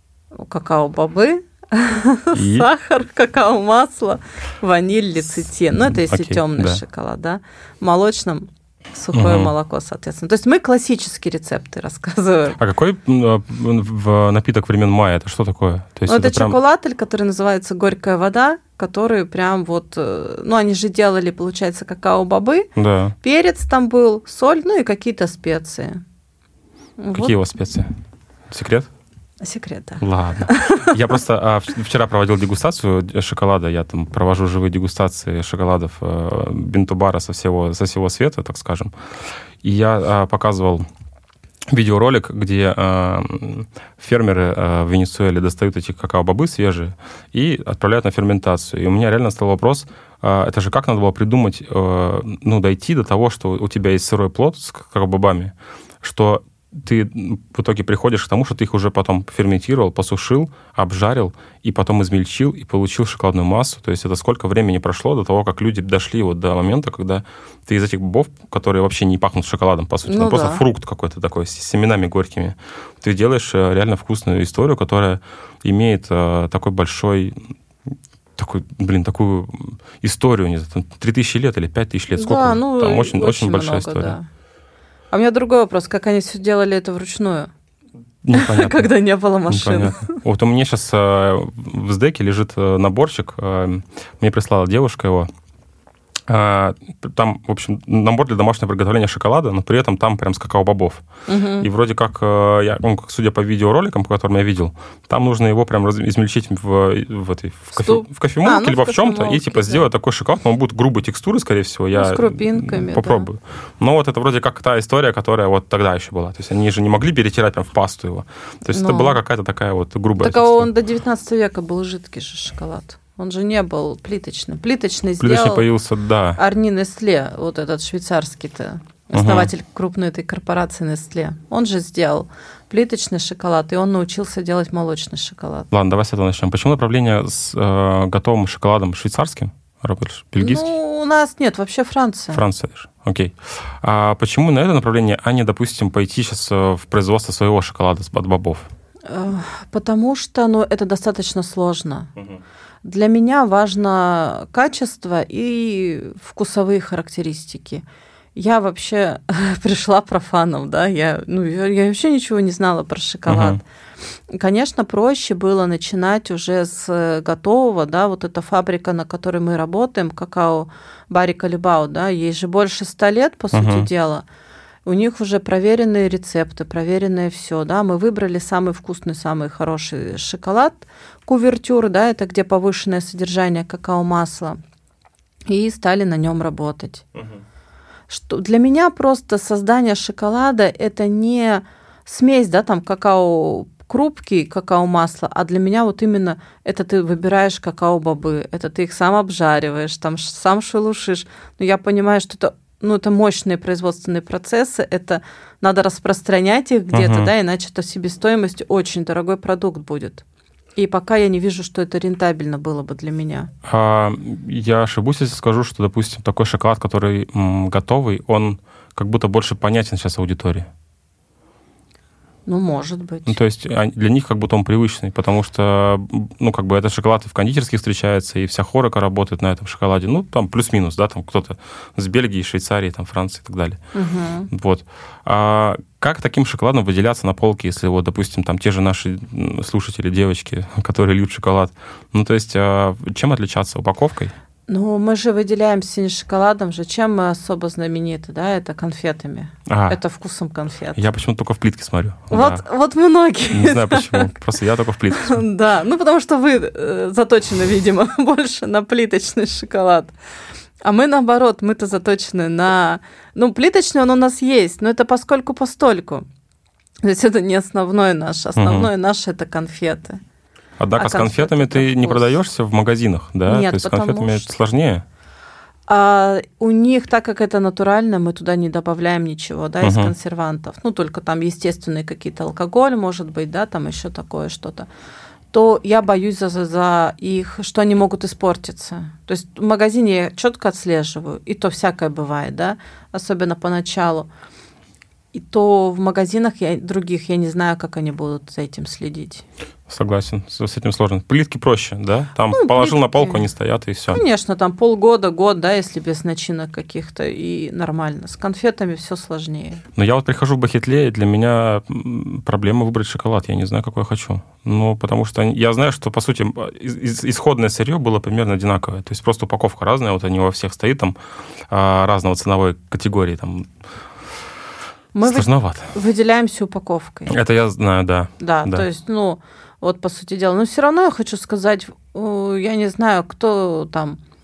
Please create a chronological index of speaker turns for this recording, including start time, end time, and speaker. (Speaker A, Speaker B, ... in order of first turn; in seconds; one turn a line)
Speaker A: 0.4-12.6
Speaker B: 2.3-2.7
Speaker B: 5.8-6.8
Speaker B: 9.1-9.5
Speaker B: 12.6-16.6
Speaker A: 16.1-22.7
Speaker B: 22.8-23.1
Speaker A: 23.2-26.0
Speaker A: 27.0-27.3
Speaker B: 27.1-27.9
Speaker B: 28.5-28.9
Speaker A: 29.4-31.0
Speaker B: 30.0-38.9
Speaker B: 39.6-40.9
Speaker B: 41.7-77.4
Speaker A: 70.0-70.6
Speaker B: 78.4-84.2
Speaker A: 82.1-84.3
Speaker A: 85.1-87.5
Speaker B: 88.2-88.9
Speaker A: 88.3-90.2
Speaker B: 89.5-95.3
Speaker B: 96.3-101.0
Speaker A: 101.3-101.7
Speaker B: 101.6-120.7
Speaker A: 107.7-109.9
Speaker A: 111.9-113.3
Speaker A: 118.7-119.2
Speaker A: 120.2-125.7
Speaker B: 125.2-126.4
Speaker A: 126.4-135.7
Speaker B: 129.1-129.5
Speaker B: 135.7-140.7
Speaker A: 140.4-142.4
Speaker B: 142.3-148.7
Speaker A: 149.1-152.1
Speaker A: 152.8-157.8
Speaker A: 158.4-163.6
Speaker B: 163.3-163.6
Speaker A: 164.3-174.2
Speaker B: 173.5-173.9
Speaker A: 174.9-184.6
Speaker A: 185.5-187.0
Speaker B: 187.2-187.4
Speaker A: 188.1-210.2
Speaker B: 206.9-207.3
Speaker A: 210.8-213.5
Speaker B: 213.6-220.7
Speaker A: 222.5-223.4
Speaker B: 223.3-233.8
Speaker A: 233.9-234.5
Speaker B: 234.5-244.3
Speaker A: 244.7-251.0
Speaker B: 249.7-250.0
Speaker B: 250.9-252.6
Speaker A: 252.3-254.3
Speaker B: 253.5-255.4
Speaker A: 255.1-260.1
Speaker A: 260.8-266.2
Speaker A: 267.0-270.2
Speaker B: 268.6-268.9
Speaker B: 270.8-275.1
Speaker A: 271.0-272.4
Speaker A: 273.5-274.4
Speaker A: 275.9-284.9
Speaker B: 279.8-280.1
Speaker A: 285.5-294.3
Speaker A: 295.3-299.4
Speaker B: 299.9-304.2
Speaker A: 302.5-303.5
Speaker A: 304.1-309.8
Speaker B: 309.9-321.2
Speaker B: 321.7-323.7
Speaker A: 325.1-327.4
Speaker B: 325.3-325.9
Speaker B: 327.3-328.9
Speaker A: 328.4-334.2